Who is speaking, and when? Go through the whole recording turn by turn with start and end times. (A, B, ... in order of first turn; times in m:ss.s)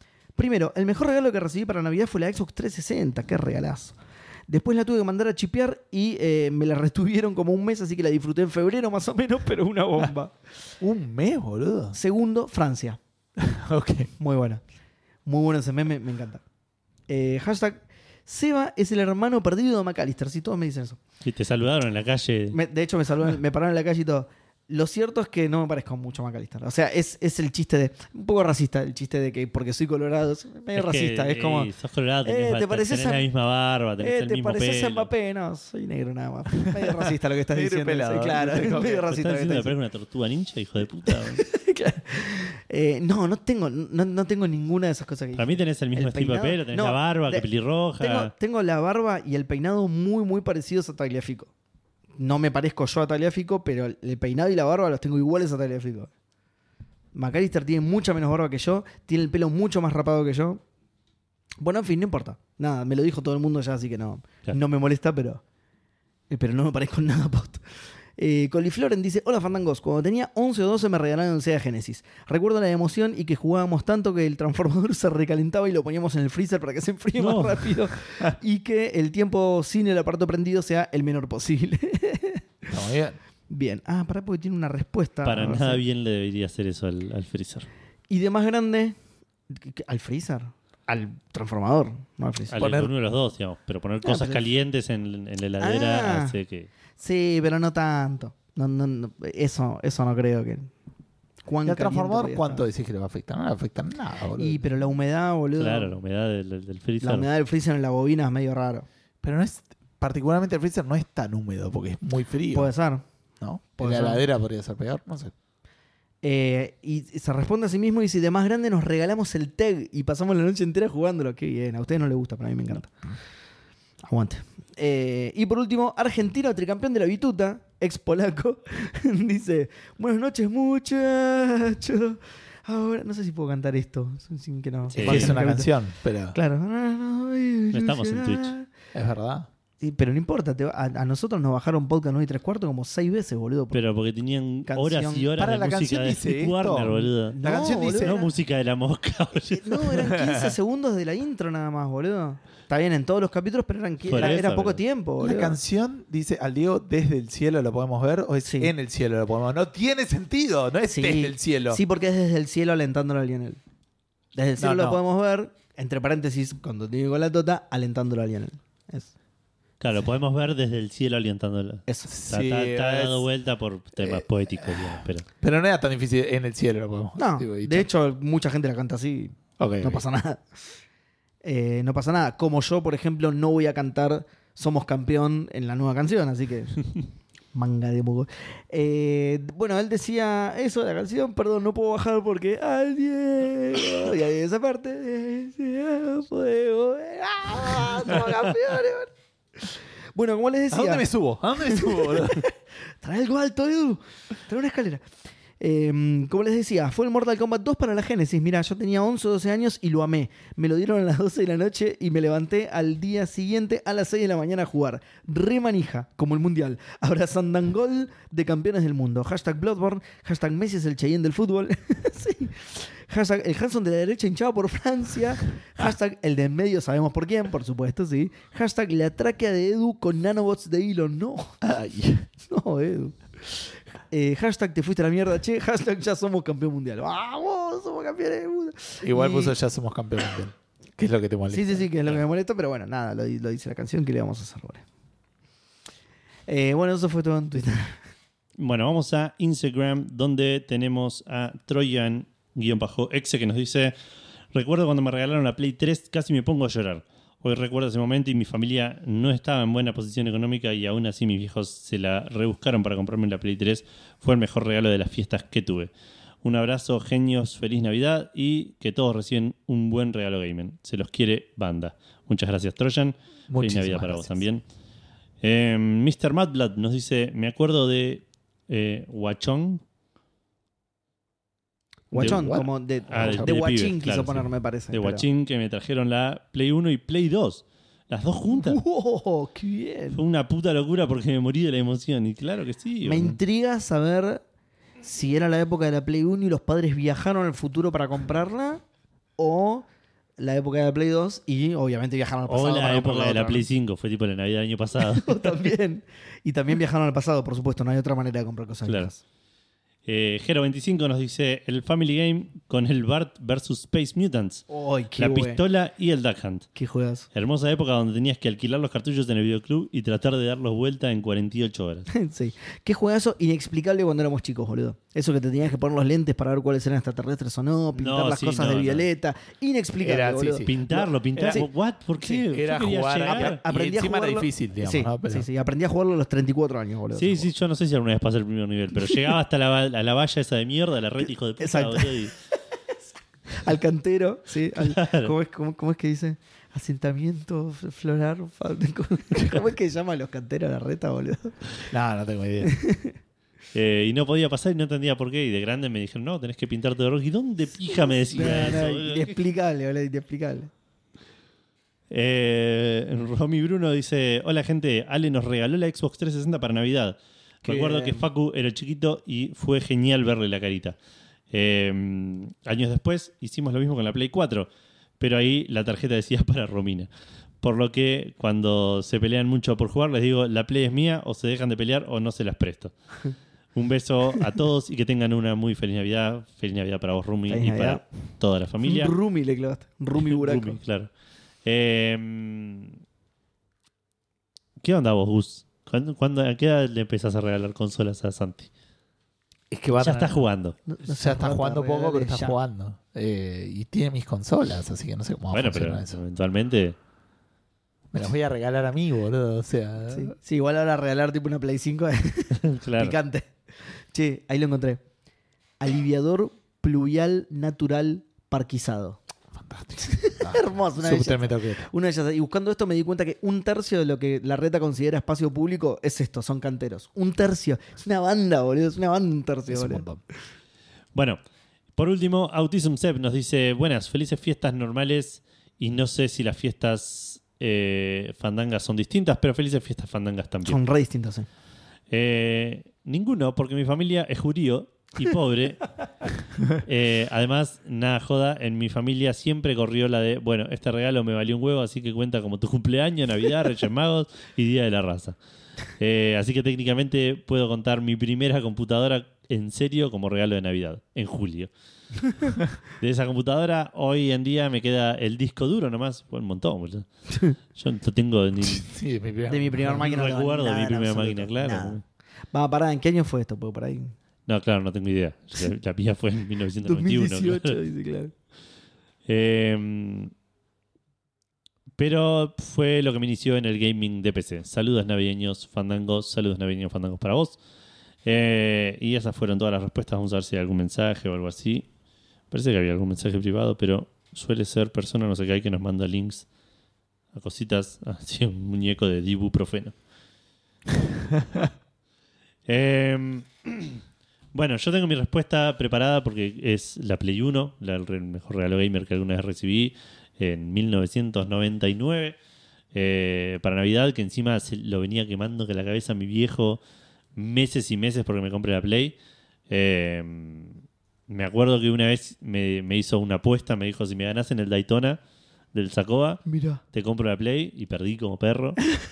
0:00.4-0:03.9 A
0:04.5-0:10.4 A
0:10.8-0:12.0 B
0:11.9-0:13.0 A
0:13.4-0:14.1 B
0:14.2-0:14.6 A
0:15.2-0:16.4 A
0:17.1-0:21.0 A
0:21.2-0:22.6 C
0:22.5-0:31.7 A
0:30.7-0:35.1 C
0:32.2-0:33.2 A
0:34.0-0:39.7 A
0:37.5-0:39.0 B
0:39.1-0:41.4 C
0:41.1-0:47.5 A
0:45.4-0:48.3 C
0:48.0-0:51.5 A
0:52.2-0:56.1 A
0:57.1-1:00.6 A
1:01.6-1:05.4 A
1:06.3-1:07.6 A
1:08.2-1:22.7 A
1:17.2-1:17.8 C
1:22.7-1:23.2 B
1:23.5-1:25.8 A
1:25.2-1:27.7 C
1:28.1-1:29.0 A
1:29.5-1:32.6 A
1:32.5-1:36.7 C
1:32.6-1:32.9 B
1:34.0-1:34.4 A
1:35.6-1:36.4 A
1:37.0-1:40.7 A
1:41.4-1:42.6 A
1:41.6-1:44.6 B
1:44.4-1:45.9 A
1:45.6-1:47.3 C
1:47.0-1:48.8 A
1:49.2-1:52.7 B
1:52.5-1:53.0 A
1:53.4-1:55.3 B
1:53.8-1:54.2 A
1:56.2-2:02.9 A
2:04.0-2:15.7 A
2:14.9-2:15.4 C
2:15.0-2:16.4 B
2:16.3-2:18.7 A
2:17.7-2:18.5 C
2:18.9-2:19.5 B
2:19.8-2:23.8 A
2:23.7-2:30.1 C
2:24.7-2:25.3 A
2:25.4-2:28.3 B
2:27.3-2:28.3 A
2:29.5-2:35.6 A
2:34.1-2:34.8 C
2:34.2-2:34.4 B
2:35.2-2:41.8 B
2:38.4-2:38.7 A
2:40.8-2:43.6 A
2:44.3-2:49.1 A
2:44.6-2:45.0 B
2:49.8-2:55.2 C
2:52.1-2:53.2 B
2:54.7-2:57.9 B
2:57.2-3:00.5 A
2:59.6-3:00.0 B
3:01.4-3:06.8 A
3:07.5-3:19.1 A
3:20.1-3:21.1 A
3:20.7-3:22.4 B
3:21.6-3:25.0 A
3:25.6-3:51.6 A
3:51.6-3:52.3 B
3:52.4-3:59.5 A
3:59.0-4:01.9 B
4:01.5-4:04.8 A
4:06.5-4:08.0 A
4:08.6-4:13.9 C
4:14.5-4:25.9 C
4:26.4-4:34.6 C
4:33.5-4:34.4 B
4:35.4-4:39.8 C
4:42.1-4:45.2 A
4:42.1-4:43.5 B
4:42.2-4:42.4 C
4:43.1-4:48.8 C
4:48.5-4:50.2 A
4:50.1-4:53.4 C
4:53.0-4:54.4 A
4:55.0-4:58.8 A
4:59.4-4:59.8 A
5:00.4-5:03.6 A
5:02.5-5:05.5 C
5:05.0-5:09.2 A
5:10.0-5:14.6 C
5:14.7-5:15.6 A
5:15.2-5:16.7 C
5:16.7-5:17.2 A
5:17.3-5:22.1 C
5:22.1-5:31.6 A
5:28.0-5:29.0 C
5:30.0-5:31.6 B
5:30.6-5:33.6 C
5:32.5-5:35.5 B
5:33.2-5:37.5 A
5:37.1-5:42.3 C
5:41.6-5:42.2 A
5:43.5-5:51.6 A
5:44.8-5:45.3 C
5:51.9-5:52.7 B
5:52.6-5:53.2 A
5:53.7-5:59.4 C
5:57.9-6:00.7 A
6:02.1-6:11.0 C
6:07.6-6:08.3 A
6:11.5-6:14.7 C
6:15.2-6:17.1 C
6:17.6-6:22.9 C
6:23.7-6:29.1 C
6:27.5-6:28.0 A
6:28.8-6:30.8 A
6:30.1-6:31.1 C
6:31.6-6:33.0 C
6:34.8-6:38.7 C
6:39.7-6:40.4 B
6:39.9-6:40.8 C
6:40.9-6:42.6 A
6:41.1-6:46.2 B
6:45.5-6:46.9 C
6:48.1-6:50.3 B
6:50.1-6:53.5 A
6:52.6-6:53.2 C
6:54.1-6:55.0 A
6:55.8-6:59.2 A
6:59.5-7:01.9 B
7:00.0-7:10.0 A
7:09.7-7:10.2 B
7:12.0-7:20.8 C
7:20.6-7:21.5 A
7:22.1-7:25.9 C
7:26.7-7:35.4 C
7:36.0-7:41.7 C
7:43.0-7:47.0 C
7:47.7-7:48.9 C
7:48.6-7:50.1 B
7:49.5-7:52.0 A
7:49.9-7:52.0 C
7:52.5-7:54.1 A
7:54.5-7:57.8 C
7:56.8-7:58.3 A
7:59.2-8:00.3 C
8:02.0-8:07.6 C
8:08.2-8:11.8 C
8:12.5-8:16.4 C
8:17.3-8:19.9 C
8:21.3-8:21.7 B
8:22.7-8:24.0 C
8:24.5-8:32.4 C
8:32.9-8:36.8 C
8:37.4-8:39.2 C
8:39.7-8:45.2 C
8:45.7-8:48.9 C
8:46.4-8:46.8 A